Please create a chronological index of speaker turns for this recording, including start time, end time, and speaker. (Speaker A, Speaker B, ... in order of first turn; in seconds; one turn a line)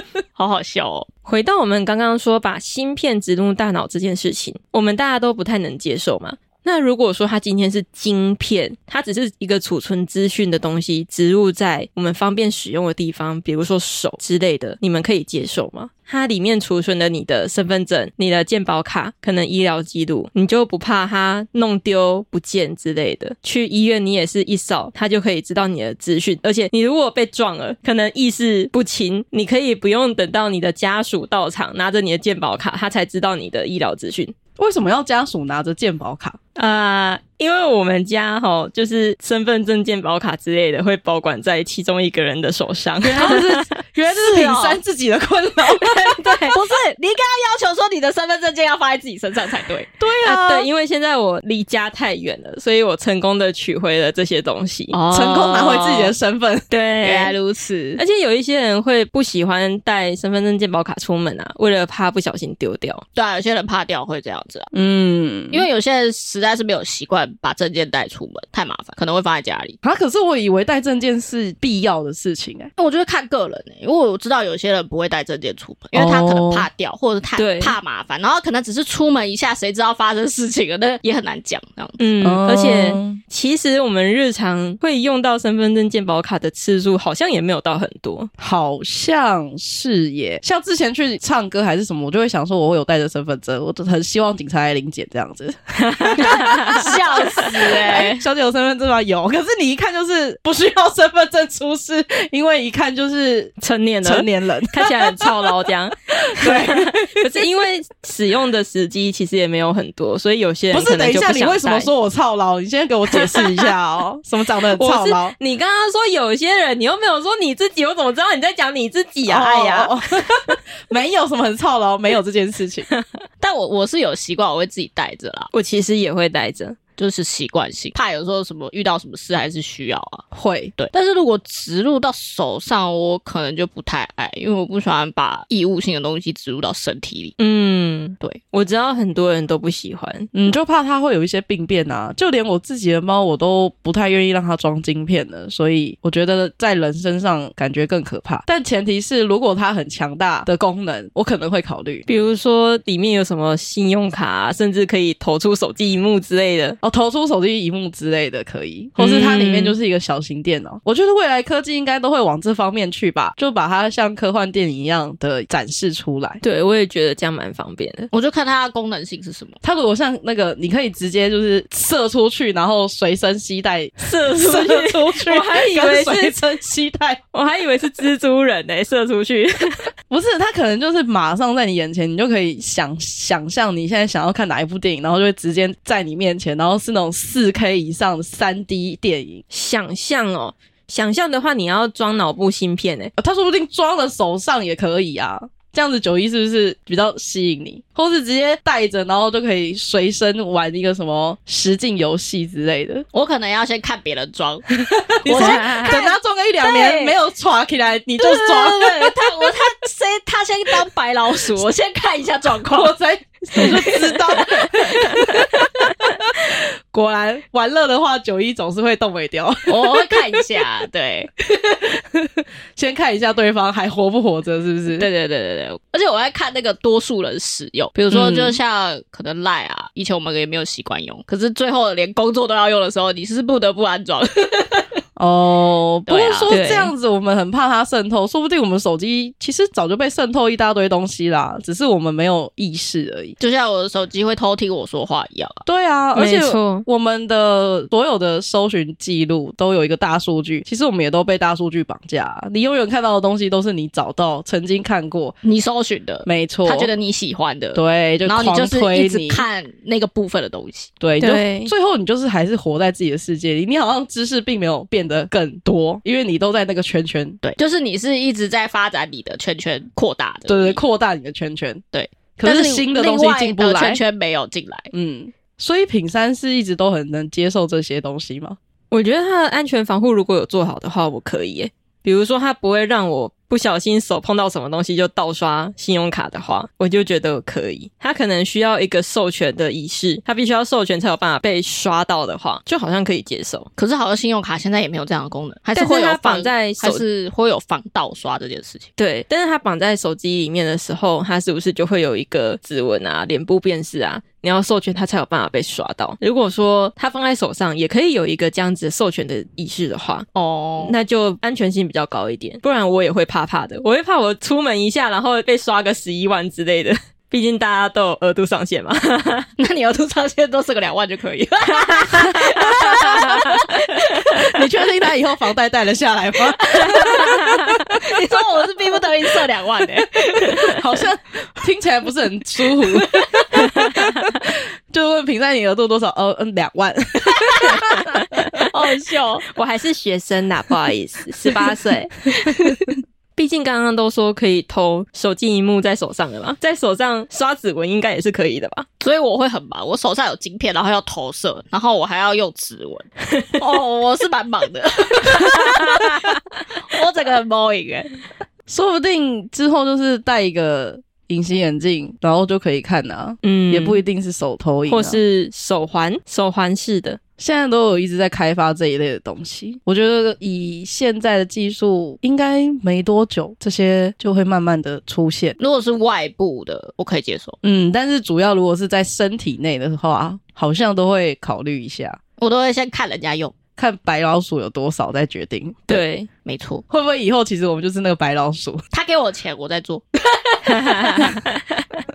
Speaker A: 0.3-1.1
Speaker B: 1.2-34.3
Speaker C: 34.6-36.4
Speaker B: 36.5-43.7
Speaker C: 43.0-46.4
Speaker A: 44.1-44.8
Speaker B: 45.8-46.5
Speaker A: 46.5-49.9
Speaker C: 50.0-50.7
Speaker B: 50.2-55.0
Speaker A: 54.9-56.1
Speaker C: 55.1-56.6
Speaker B: 56.7-57.3
Speaker A: 57.0-58.0
Speaker B: 58.0-63.0
Speaker A: 63.1-64.7
Speaker C: 64.7-65.7
Speaker A: 65.5-69.8
Speaker C: 69.8-72.7
Speaker A: 72.8-82.0
Speaker C: 75.9-76.7
Speaker B: 77.3-77.8
Speaker B: 82.0-88.3
Speaker C: 82.2-83.2
Speaker C: 88.4-105.5
Speaker B: 95.8-97.5
Speaker A: 96.8-98.2
Speaker B: 103.6-111.9
Speaker C: 106.1-107.2
Speaker C: 110.7-115.3
Speaker B: 113.1-113.7
Speaker B: 114.7-120.6
Speaker C: 119.2-122.9
Speaker A: 123.4-125.5
Speaker B: 125.5-126.8
Speaker A: 127.0-130.2
Speaker C: 130.3-130.7
Speaker A: 130.8-137.3
Speaker B: 137.4-140.3
Speaker C: 140.3-152.1
Speaker B: 152.1-156.8
Speaker C: 156.8-166.4
Speaker B: 159.0-159.8
Speaker B: 166.4-168.1
Speaker A: 168.1-169.6
Speaker C: 169.6-177.2
Speaker B: 174.0-176.4
Speaker B: 177.3-179.9
Speaker C: 180.1-189.4
Speaker B: 189.5-193.1
Speaker C: 193.2-203.0
Speaker A: 203.1-204.7
Speaker C: 204.9-209.3
Speaker B: 205.2-206.0
Speaker A: 205.2-207.2
Speaker A: 208.2-213.0
Speaker C: 212.7-220.5
Speaker A: 213.5-215.1
Speaker B: 213.6-213.9
Speaker A: 219.7-221.3
Speaker C: 221.5-225.1
Speaker A: 225.0-235.0
Speaker C: 227.9-228.6
Speaker C: 235.2-243.3
Speaker A: 236.1-236.6
Speaker B: 236.5-236.9
Speaker A: 243.4-245.7
Speaker C: 245.7-255.3
Speaker B: 246.1-246.8
Speaker A: 255.4-260.9
Speaker C: 256.2-256.9
Speaker C: 257.7-259.4
Speaker C: 261.0-267.4
Speaker B: 261.2-261.7
Speaker A: 267.4-270.8
Speaker C: 270.5-271.8
Speaker A: 271.9-274.9
Speaker C: 272.4-274.0
Speaker C: 274.9-278.6
Speaker B: 278.9-293.7
Speaker A: 293.8-298.9
Speaker B: 295.7-297.0
Speaker B: 299.0-310.2
Speaker A: 310.3-310.9
Speaker B: 310.8-319.5
Speaker A: 319.6-324.7
Speaker B: 321.7-323.6
Speaker C: 322.7-323.2
Speaker C: 324.2-327.9
Speaker A: 326.6-327.3
Speaker A: 328.0-330.5
Speaker C: 330.4-338.4
Speaker A: 333.0-333.4
Speaker B: 333.6-334.2
Speaker A: 337.5-337.7
Speaker A: 338.6-339.5
Speaker B: 339.5-342.8
Speaker B: 343.4-348.9
Speaker A: 349.0-358.1
Speaker B: 353.3-353.6
Speaker B: 355.6-356.4
Speaker C: 358.7-365.2
Speaker B: 363.4-364.0
Speaker B: 364.9-367.2
Speaker C: 367.4-375.6
Speaker A: 375.6-377.6
Speaker C: 377.6-382.2
Speaker A: 382.4-383.5
Speaker C: 383.8-386.0
Speaker B: 385.9-386.3
Speaker A: 386.4-386.8
Speaker C: 386.9-388.8
Speaker A: 388.9-390.1
Speaker B: 390.6-391.9